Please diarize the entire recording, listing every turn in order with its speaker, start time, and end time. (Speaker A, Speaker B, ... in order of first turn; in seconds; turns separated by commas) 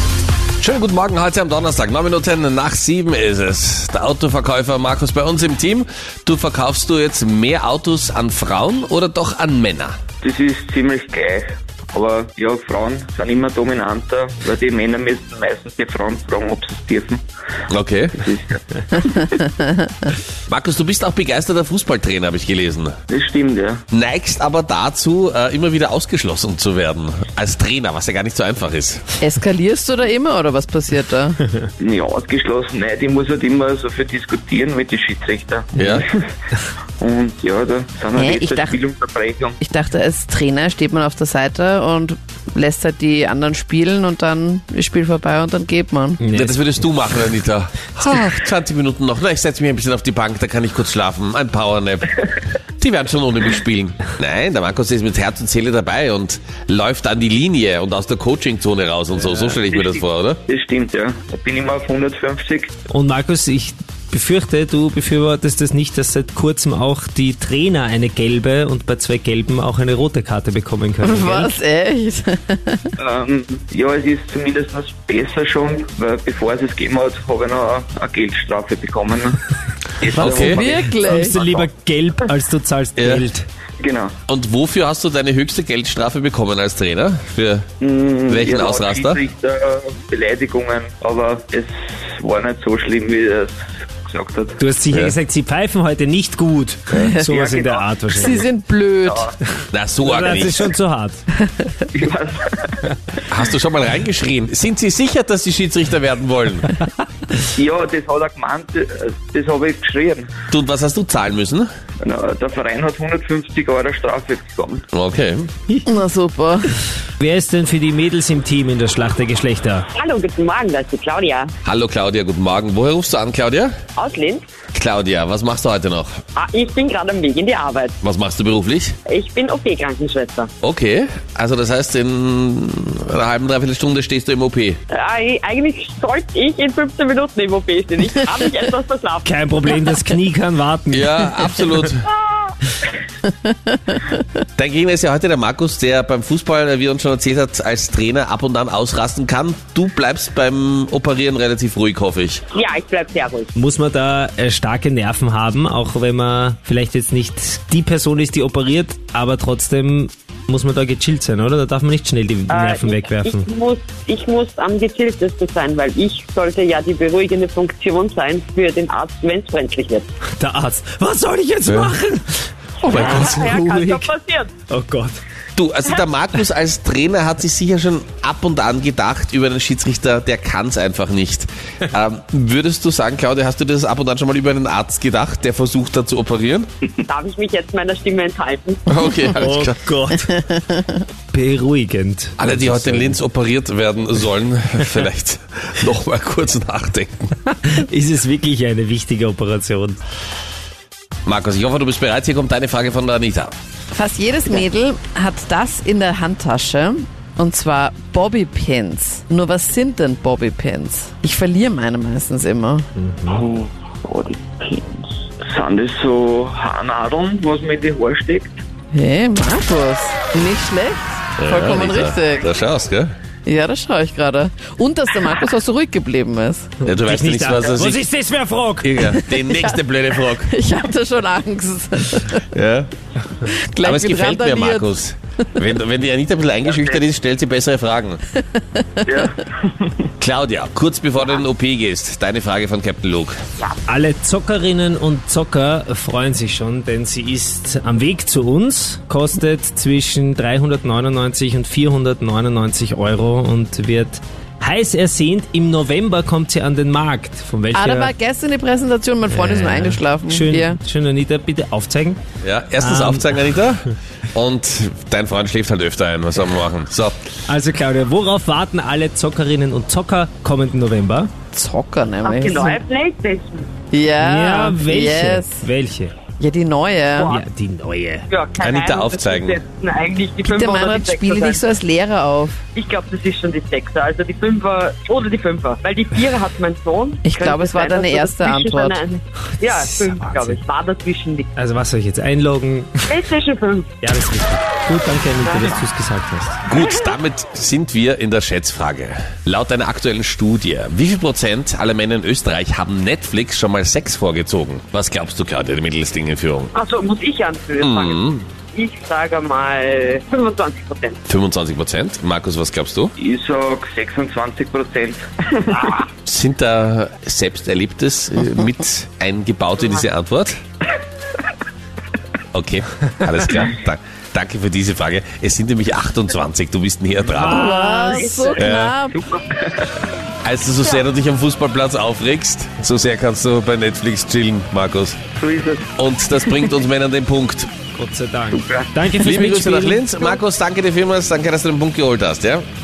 Speaker A: 0.6-10.0, Speaker B: 10.2-17.2, Speaker A: 17.7-18.2, Speaker B: 18.1-19.4, Speaker C: 19.5-20.1, Speaker A: 20.4-23.0, Speaker B: 23.1-23.8, Speaker A: 23.9-29.1, Speaker C: 29.2-31.4, Speaker B: 31.8-36.3, Speaker A: 35.7-36.0, Speaker B: 37.0-39.6, Speaker C: 38.1-38.8, Speaker C: 39.6-46.3, Speaker D: 46.2-46.6, Speaker A: 46.3-52.1, Speaker A: 52.8-60.4, Speaker B: 59.3-62.7, Speaker D: 62.9-71.5, Speaker C: 71.0-72.9, Speaker B: 73.0-79.4, Speaker B: 80.0-81.7, Speaker D: 80.1-83.4, Speaker C: 80.2-81.3, Speaker A: 80.3-80.6, Speaker A: 83.0-83.3, Speaker B: 83.8-84.1, Speaker A: 84.3-87.7, Speaker B: 87.8-94.6, Speaker A: 88.3-89.2, Speaker D: 94.6-98.4, Speaker A: 94.9-95.2, Speaker C: 96.9-97.4, Speaker B: 97.3-98.5, Speaker C: 98.1-99.3, Speaker B: 99.0-99.3, Speaker A: 99.7-100.7, Speaker D: 100.0-101.2, Speaker B: 101.9-102.8, Speaker A: 103.3-106.7, Speaker B: 107.5-110.3, Speaker A: 110.5-111.7, Speaker B: 112.0-114.8, Speaker A: 114.9-115.5, Speaker C: 115.8-116.7, Speaker D: 117.2-119.9, Speaker E: 119.9-121.5, Speaker A: 121.6-123.7, Speaker E: 124.0-124.5, Speaker A: 124.7-126.2, Speaker E: 126.3-128.0, Speaker A: 128.0-129.0, Speaker E: 129.1-130.5, Speaker A: 130.6-134.8, Speaker E: 134.9-139.3, Speaker D: 139.2-141.8, Speaker A: 140.9-142.1, Speaker C: 143.2-144.2, Speaker A: 144.6-152.4, Speaker E: 152.5-153.5, Speaker D: 153.5-163.5, Speaker E: 162.5-170.1, Speaker D: 170.4-174.1, Speaker A: 171.7-171.9, Speaker A: 172.8-173.5, Speaker E: 172.9-174.5, Speaker D: 174.7-175.2, Speaker A: 175.6-186.7, Speaker E: 187.1-188.8, Speaker A: 188.9-189.8, Speaker D: 189.3-190.4, Speaker C: 190.5-190.9, Speaker D: 191.3-193.2, Speaker A: 192.4-197.3, Speaker D: 197.7-200.0, Speaker A: 201.2-203.5, Speaker C: 203.9-212.9, Speaker D: 213.0-213.4, Speaker B: 213.3-218.6, Speaker C: 218.9-222.5, Speaker A: 221.4-223.1, Speaker C: 223.4-226.8, Speaker A: 226.8-228.0, Speaker D: 226.9-229.2, Speaker A: 228.8-230.5, Speaker C: 229.2-232.4, Speaker A: 232.5-232.9, Speaker C: 233.5-235.7, Speaker A: 233.8-238.2, Speaker B: 236.7-237.0, Speaker C: 238.5-239.1, Speaker B: 239.1-240.1, Speaker A: 240.2-243.4, Speaker D: 243.9-258.1, Speaker C: 257.7-260.8, Speaker D: 259.3-262.2, Speaker A: 262.4-267.2, Speaker D: 262.8-263.6, Speaker D: 267.5-271.3, Speaker C: 271.5-272.8, Speaker E: 272.2-273.7, Speaker C: 273.9-275.7, Speaker D: 274.2-276.1, Speaker C: 276.4-277.4, Speaker E: 277.2-277.4, Speaker D: 277.3-278.3, Speaker E: 278.3-281.6, Speaker A: 278.6-279.6, Speaker C: 280.4-282.6, Speaker E: 282.8-291.5, Speaker C: 287.2-289.0, Speaker D: 289.7-290.6, Speaker D: 291.6-293.1, Speaker E: 293.1-294.0, Speaker D: 294.0-296.6, Speaker E: 295.4-295.8, Speaker A: 296.6-306.7, Speaker E: 296.7-297.1, Speaker E: 306.7-308.2, Speaker A: 307.8-308.5, Speaker E: 308.7-311.2, Speaker A: 311.3-313.1, Speaker B: 313.2-316.0, Speaker E: 315.8-316.0, Speaker A: 316.2-320.6, Speaker A: 322.5-327.7, Speaker D: 327.3-328.5, Speaker C: 327.4-329.2, Speaker E: 327.9-328.7, Speaker A: 328.6-328.9, Speaker B: 329.1-330.0, Speaker A: 330.4-335.2, Speaker B: 335.4-336.8, Speaker A: 336.0-337.7, Speaker D: 337.9-340.0, Speaker B: 338.5-338.9, Speaker A: 339.2-342.7